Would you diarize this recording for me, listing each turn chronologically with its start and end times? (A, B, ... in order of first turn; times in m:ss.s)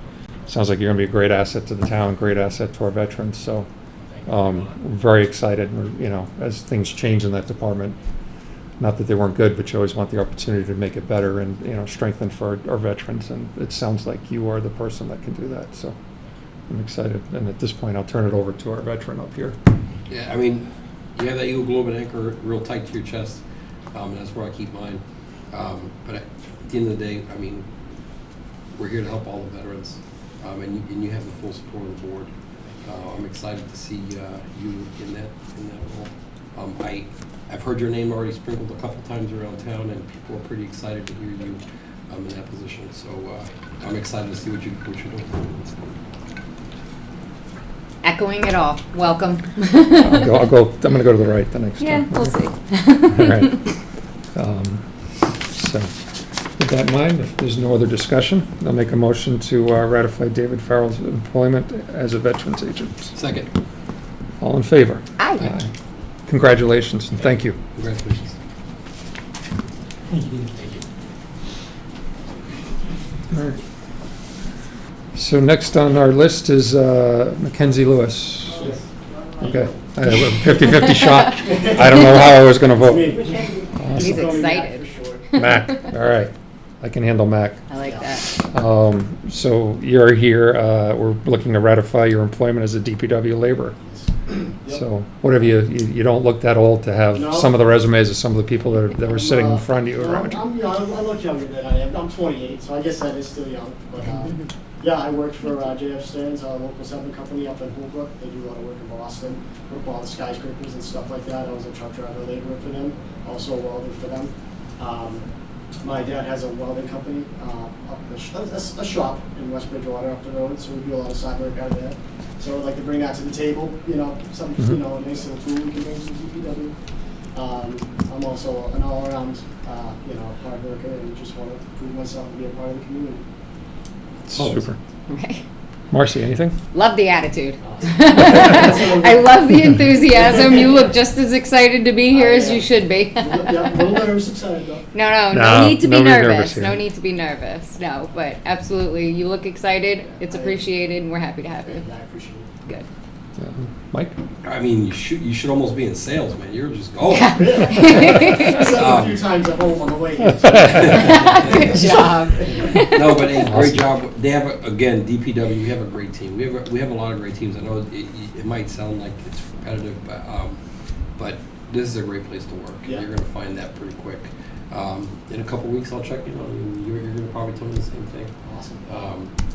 0:00.5-0:03.7 A
0:04.3-0:08.0 A
0:08.8-0:16.0 A
0:16.7-0:19.6 A
0:20.1-0:23.4 B
0:23.9-0:27.7 B
0:28.8-0:32.3 B
0:32.8-0:45.8 B
0:48.0-0:50.3 C
0:49.9-0:52.3 A
0:51.8-0:53.6 C
0:53.1-0:53.6 A
0:54.4-0:54.8 A
0:55.5-0:55.9 A
0:56.6-1:03.2 A
1:03.2-1:03.5 B
1:04.4-1:05.7 A
1:05.2-1:05.5 C
1:06.3-1:07.6 A
1:07.3-1:08.4 B
1:10.6-1:10.8 B
1:15.1-1:18.7 A
1:18.5-1:19.8 D
1:19.4-1:23.2 A
1:21.4-1:25.3 D
1:23.8-1:24.4 A
1:24.0-1:25.7 C
1:25.3-1:27.6 A
1:27.7-1:28.4 C
1:27.8-1:28.1 D
1:28.5-1:33.8 A
1:33.8-1:34.8 D
1:34.7-1:40.4 A
1:37.1-1:37.6 D
1:39.0-1:55.3 D
1:55.8-2:06.8 D
2:07.3-2:13.2 D
2:14.3-2:14.8 A
2:15.1-2:15.4 C
2:15.9-2:16.6 A
2:16.7-2:24.0 C
2:17.6-2:20.9 D
2:22.1-2:24.9 D
2:24.9-2:31.8 C
2:25.3-2:26.8 A
2:30.0-2:30.7 D
2:31.6-2:32.5 D
2:33.4-2:34.2 A
2:34.4-2:39.2 B
2:37.1-2:38.8 C
2:37.3-2:43.2 D
2:40.6-2:41.9 B
2:40.9-2:43.2 C
2:42.9-2:50.6 B
2:43.5-2:43.8 A
2:51.2-2:58.3 B
2:58.4-2:59.1 D
2:58.9-2:59.3 B